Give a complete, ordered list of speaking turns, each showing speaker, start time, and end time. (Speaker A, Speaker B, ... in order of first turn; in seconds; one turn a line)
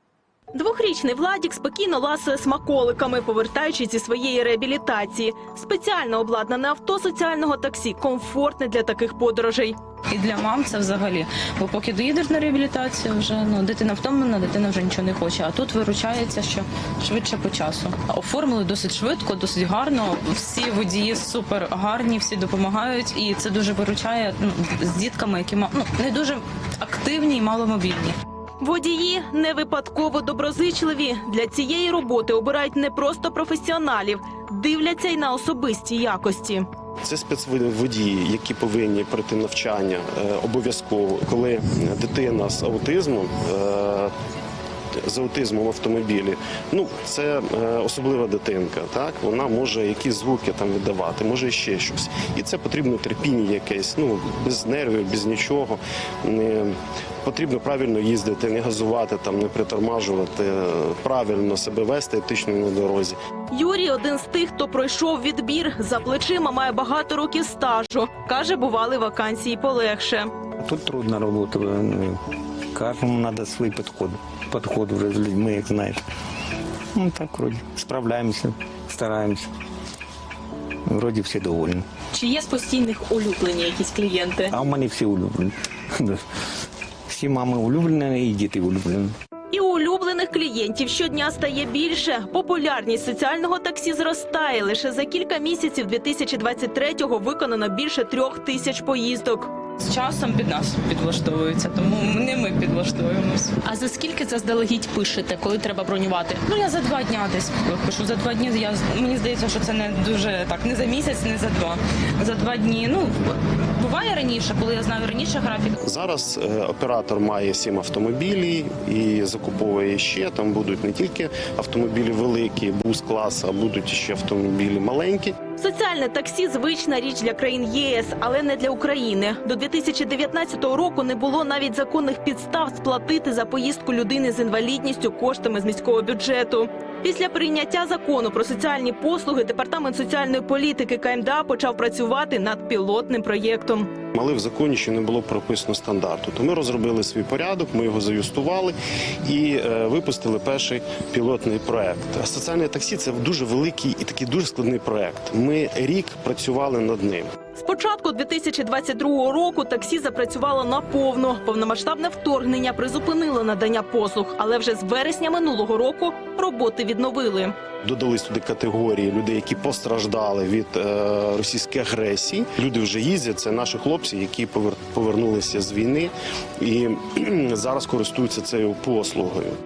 Speaker A: 0.5-9.8
Speaker B: 10.1-28.1
Speaker A: 28.6-36.6
Speaker C: 37.0-44.1
Speaker C: 45.0-63.1
Speaker A: 63.5-70.3
Speaker D: 70.6-72.2
Speaker D: 72.7-76.0
Speaker D: 76.9-79.5
Speaker D: 80.9-81.8
Speaker A: 82.1-84.5
Speaker E: 82.2-84.4
Speaker D: 84.5-86.2
Speaker D: 87.1-89.1
Speaker A: 89.5-99.5
Speaker B: 99.8-103.6
Speaker E: 103.6-106.4
Speaker B: 106.4-115.8
Speaker C: 115.8-125.4
Speaker A: 125.5-143.9
Speaker C: 144.1-157.3
Speaker A: 157.5-167.5
Speaker C: 167.8-179.5